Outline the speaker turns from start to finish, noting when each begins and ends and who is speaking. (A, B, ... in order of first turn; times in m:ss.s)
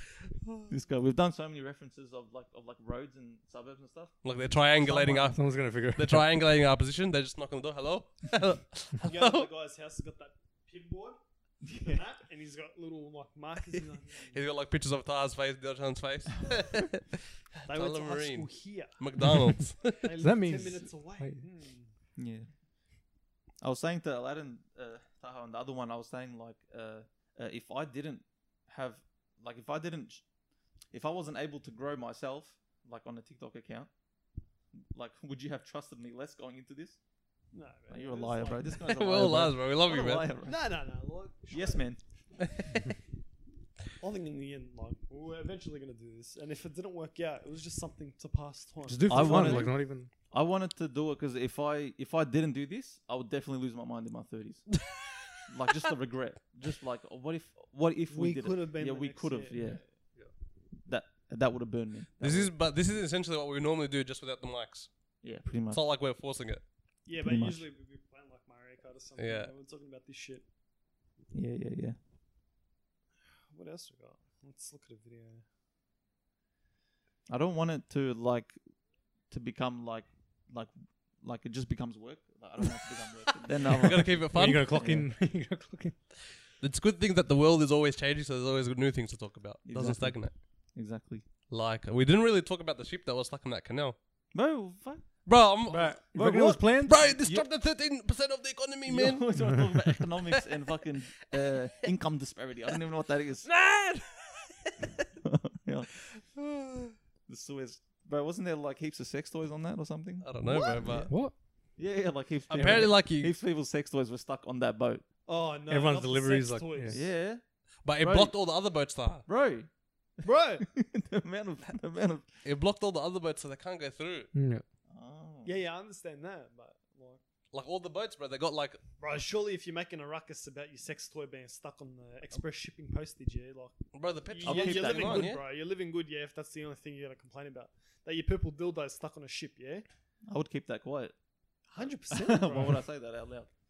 0:00.7-0:04.2 A
0:04.2-0:09.5 B
0:04.8-0:05.3 A
0:05.2-0:06.2 C
0:09.0-0:11.2 D
0:11.6-0:12.0 A
0:11.7-0:14.4 D
0:14.1-0:20.0 B
0:17.7-0:19.0 D
0:20.0-0:21.9 D
0:20.2-0:21.4 C
0:22.2-0:22.5 A
0:23.6-0:30.2 A
0:30.9-0:33.9 A
0:34.7-0:37.0 A
0:37.5-0:38.7 D
0:37.9-0:40.6 A
0:38.7-0:40.3 B
0:40.4-0:41.8 D
0:41.5-0:42.0 A
0:42.5-0:42.8 B
0:44.0-0:49.7 D
0:48.8-0:50.1 C
0:49.1-0:49.7 A
0:50.3-0:54.8 A
0:55.4-0:59.8 A
0:58.1-0:59.8 D
1:00.8-1:02.5 A
1:02.2-1:04.9 B
1:05.2-1:05.8 A
1:05.7-1:06.6 B
1:07.0-1:10.4 D
1:07.2-1:07.6 A
1:09.2-1:09.5 B
1:11.3-1:12.0 A
1:13.5-1:15.4 D
1:17.3-1:18.6 A
1:19.3-1:25.1 A
1:23.6-1:24.8 B
1:24.0-1:26.0 C
1:26.5-1:30.3 B
1:29.6-1:31.2 A
1:31.5-1:34.0 B
1:34.3-1:35.0 A
1:35.2-1:36.1 B
1:35.7-1:37.1 C
1:36.1-1:37.5 A
1:36.8-1:39.6 B
1:38.8-1:43.5 A
1:39.4-1:39.7 C
1:43.4-1:45.0 B
1:45.2-1:45.9 A
1:46.1-1:46.9 B
1:47.3-1:51.2 A
1:50.2-1:51.1 B
1:51.1-1:51.3 C
1:51.8-1:55.0 A
1:52.5-1:53.3 B
1:55.2-1:57.0 D
1:55.7-1:57.0 C
1:56.9-1:57.4 A
1:57.8-1:59.2 B
1:58.0-1:58.3 A
1:59.2-1:59.7 A
2:00.2-2:00.6 D
2:00.6-2:02.2 A
2:02.4-2:04.3 B
2:04.3-2:04.6 C
2:04.9-2:05.6 A
2:05.4-2:07.2 D
2:07.5-2:08.8 B
2:09.0-2:13.8 D
2:13.9-2:15.4 B
2:14.3-2:19.8 D
2:14.4-2:15.4 A
2:20.3-2:21.1 A
2:21.7-2:22.8 D
2:22.1-2:23.5 A